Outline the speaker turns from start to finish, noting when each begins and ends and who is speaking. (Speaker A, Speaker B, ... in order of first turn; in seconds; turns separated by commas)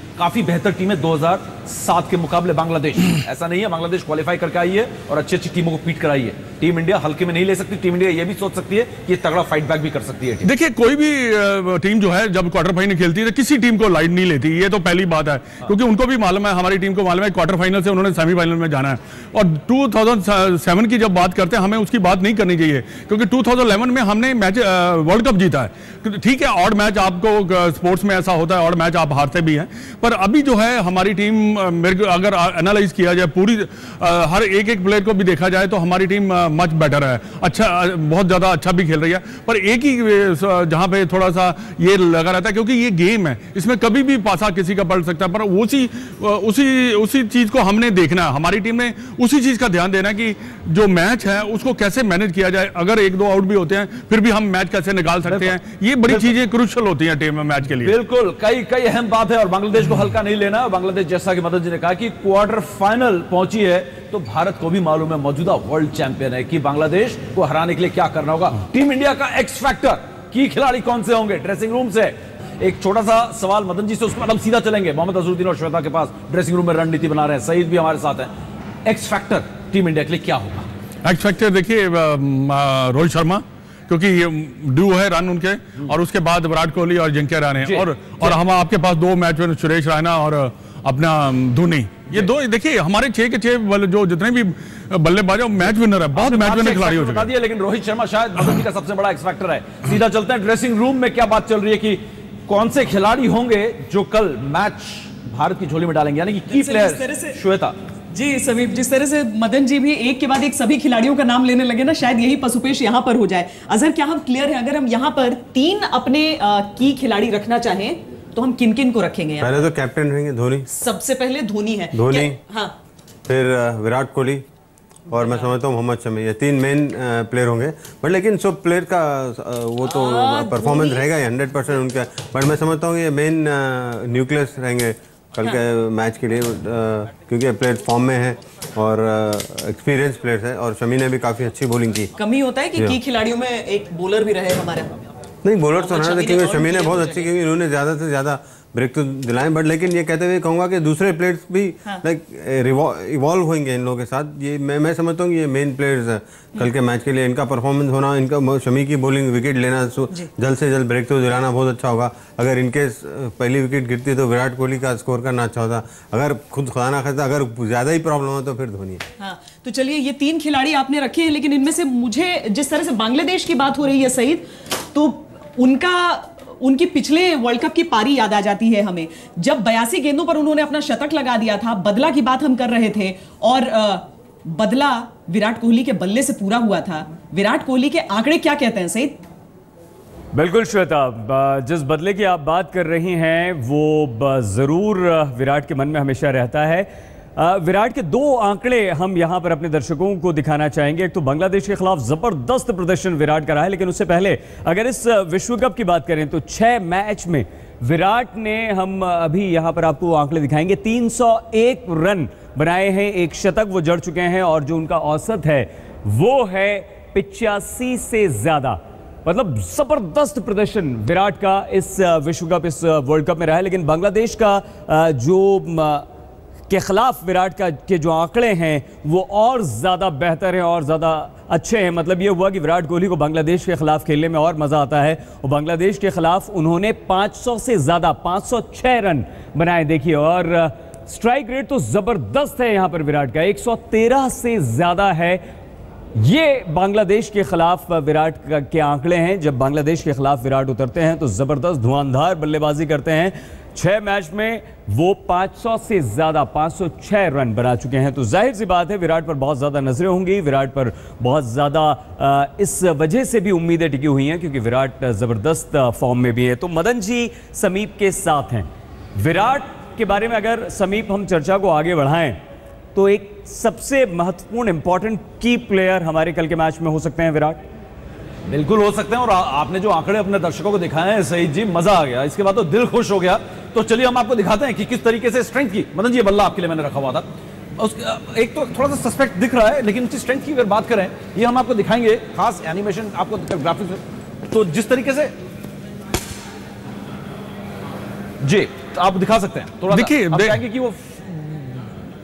Speaker A: 0.2-10.5, Speaker B: 10.4-58.0, Speaker A: 55.2-56.3, Speaker A: 57.8-78.3, Speaker A: 78.8-80.7, Speaker B: 81.0-97.3, Speaker A: 87.6-88.4, Speaker A: 96.1-107.8, Speaker C: 106.5-107.4, Speaker C: 108.1-119.6, Speaker D: 119.4-120.7, Speaker C: 120.7-122.8, Speaker D: 121.9-122.4, Speaker D: 123.3-124.5, Speaker D: 125.1-142.1, Speaker C: 129.8-131.1, Speaker C: 142.2-145.1, Speaker D: 145.4-169.0, Speaker C: 145.8-147.3, Speaker C: 169.2-189.2, Speaker E: 190.3-226.1, Speaker E: 226.7-245.4, Speaker E: 246.2-272.4, Speaker E: 272.9-277.6, Speaker A: 278.5-295.3, Speaker A: 298.4-301.9, Speaker B: 299.9-300.6